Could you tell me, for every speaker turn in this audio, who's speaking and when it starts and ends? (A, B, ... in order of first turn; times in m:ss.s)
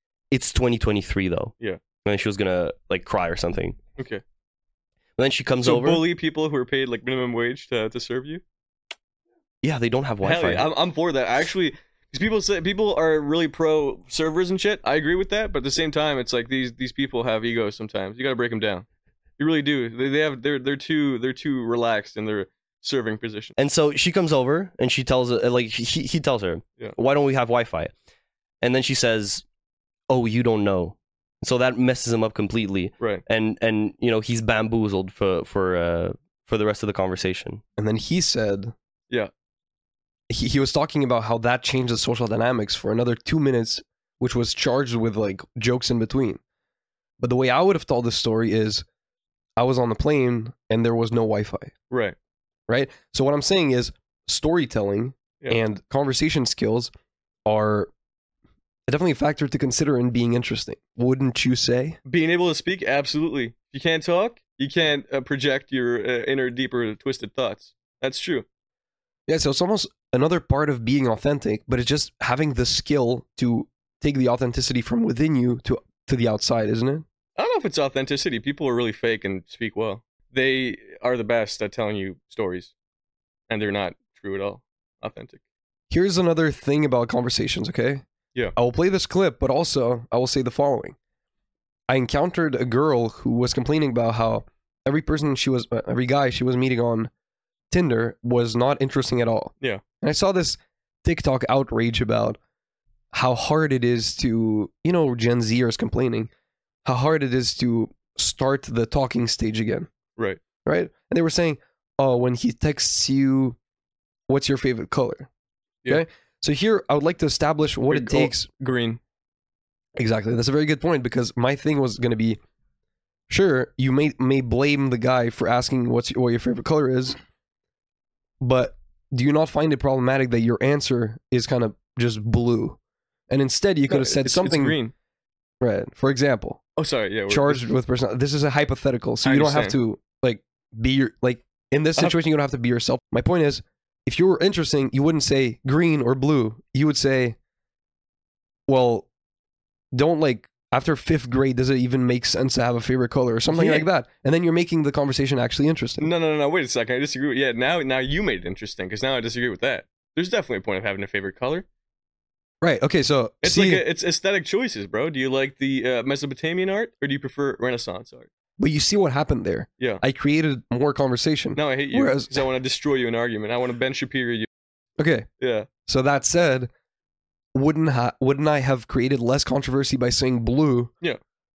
0:00.3-0:01.5 A
0:02.0-0:03.8 A
0:04.0-0:04.2 B
0:05.2-0:06.0 A
0:05.6-0:08.4 B
0:09.6-0:10.7 A
0:10.2-0:18.8 B
0:19.4-0:23.5 B
0:23.6-0:27.9 A
0:28.6-0:29.4 A
0:30.1-0:37.6 A
0:37.8-0:38.7 C
0:40.3-0:46.4 C
0:47.2-0:48.8 C
0:49.6-0:51.7 C
0:51.9-0:52.1 B
0:52.7-0:56.9 C
0:57.4-0:57.9 C
0:58.9-1:02.0 C
1:02.0-1:08.4 B
1:09.3-1:17.0 C
1:17.4-1:22.7 B
1:23.5-1:25.4 B
1:25.9-1:28.0 C
1:28.6-1:31.0 C
1:31.9-1:37.1 C
1:37.7-1:42.4 C
1:43.1-1:46.3 C
1:46.8-1:49.9 C
1:50.6-1:53.6 C
1:54.3-1:55.3 C
1:55.9-1:58.5 C
1:57.9-1:59.0 B
2:00.0-2:02.4 C
2:03.3-2:07.2 C
2:08.4-2:12.8 C
2:13.3-2:14.8 C
2:13.9-2:14.9 B
2:15.6-2:16.6 C
2:16.8-2:17.7 B
2:17.3-2:27.4 C
2:19.2-2:19.8 B
2:28.7-2:29.1 C
2:29.9-2:36.1 C
2:33.5-2:33.8 B
2:36.0-2:41.6 B
2:42.6-2:43.8 C
2:43.4-2:48.3 B
2:48.6-2:52.4 C
2:51.6-2:54.5 B
2:55.0-2:55.3 C
2:55.4-2:55.7 B
2:55.8-2:56.7 C
2:57.5-3:00.9 C